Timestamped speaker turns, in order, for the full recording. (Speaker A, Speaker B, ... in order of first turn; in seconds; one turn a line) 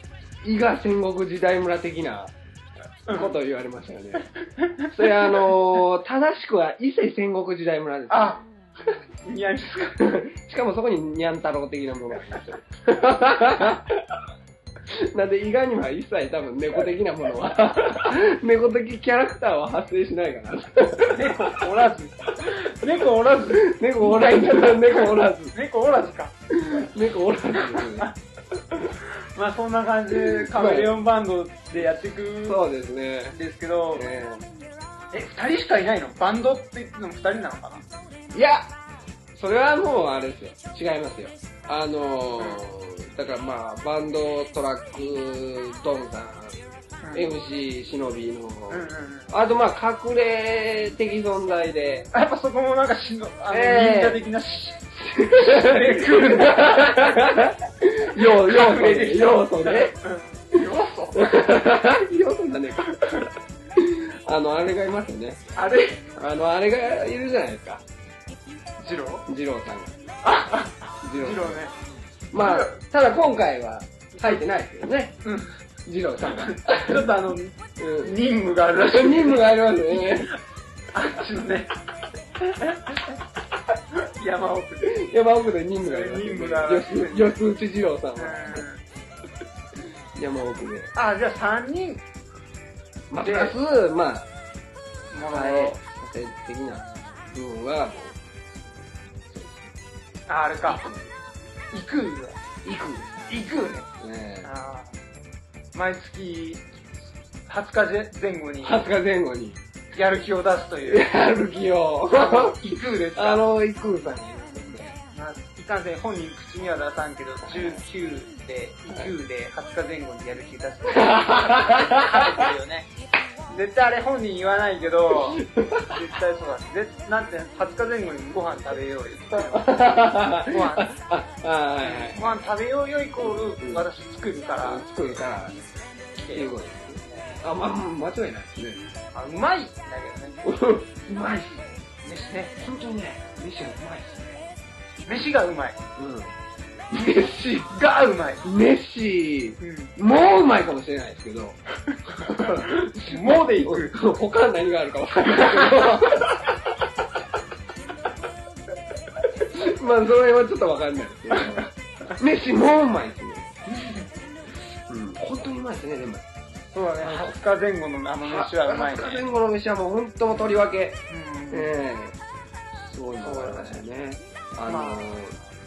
Speaker A: 0.4-2.3
Speaker B: 3.1-3.3
Speaker A: 3.1-4.3
Speaker B: 4.5-5.5
Speaker A: 4.9-8.4
Speaker B: 8.1-8.4
Speaker B: 9.2-10.2
Speaker A: 10.0-14.2
Speaker A: 14.9-21.6
Speaker B: 21.1-26.3
Speaker A: 23.5-25.5
Speaker A: 26.5-28.1
Speaker B: 27.6-28.1
Speaker B: 28.7-32.6
Speaker A: 30.1-30.9
Speaker A: 32.4-33.4
Speaker B: 33.3-34.0
Speaker A: 33.9-34.5
Speaker B: 35.1-37.8
Speaker A: 38.3-38.7
Speaker A: 39.3-46.6
Speaker B: 42.4-42.6
Speaker B: 47.0-47.3
Speaker A: 47.1-52.1
Speaker B: 48.7-49.3
Speaker B: 52.1-57.5
Speaker A: 53.5-54.2
Speaker A: 54.9-59.9
Speaker B: 58.0-61.4
Speaker A: 61.1-63.2
Speaker B: 62.9-63.2
Speaker A: 63.7-65.4
Speaker B: 65.5-66.0
Speaker A: 66.1-67.8
Speaker B: 68.8-69.2
Speaker A: 69.3-70.0
Speaker B: 70.2-71.7
Speaker A: 71.0-71.6
Speaker A: 72.3-75.2
Speaker B: 72.4-72.8
Speaker B: 74.2-74.4
Speaker B: 75.2-75.5
Speaker A: 75.8-77.0
Speaker B: 76.2-80.4
Speaker A: 77.8-78.2
Speaker A: 78.7-80.3
Speaker B: 80.9-81.7
Speaker B: 82.5-83.1
Speaker B: 83.9-85.0
Speaker A: 84.8-88.7
Speaker B: 85.8-87.3
Speaker B: 88.2-88.8
Speaker A: 90.1-90.9
Speaker B: 90.9-92.0
Speaker A: 93.1-94.3
Speaker B: 93.2-93.5
Speaker B: 95.1-95.8
Speaker A: 95.1-98.2
Speaker A: 99.3-99.7
Speaker B: 100.3-100.8
Speaker A: 100.7-101.1
Speaker B: 101.7-102.4
Speaker A: 102.6-103.3
Speaker B: 103.3-103.9
Speaker A: 104.0-104.5
Speaker B: 104.4-105.0
Speaker B: 105.7-106.6
Speaker B: 107.5-108.9
Speaker A: 108.6-109.6
Speaker B: 109.9-111.1
Speaker A: 110.8-115.0
Speaker B: 112.1-113.4
Speaker B: 115.1-122.9
Speaker A: 117.5-117.8
Speaker A: 120.9-122.5
Speaker B: 123.5-129.9
Speaker A: 125.3-126.0
Speaker A: 129.3-132.3
Speaker B: 130.4-130.9
Speaker B: 131.8-134.8
Speaker A: 133.2-133.8
Speaker A: 134.6-135.6
Speaker B: 136.2-137.4
Speaker A: 136.3-138.8
Speaker B: 139.1-140.4
Speaker A: 140.4-141.6
Speaker B: 142.0-142.6
Speaker A: 142.6-144.4
Speaker B: 145.1-145.8
Speaker A: 146.0-146.3
Speaker A: 146.9-147.7
Speaker B: 147.6-148.4
Speaker A: 148.4-156.6
Speaker B: 149.6-149.9
Speaker B: 152.3-154.0
Speaker A: 159.2-163.5
Speaker A: 164.9-166.2
Speaker B: 166.7-169.2
Speaker A: 167.0-167.3
Speaker A: 168.2-172.2
Speaker B: 171.1-171.7
Speaker A: 172.7-175.4
Speaker B: 173.2-173.8
Speaker B: 174.7-175.1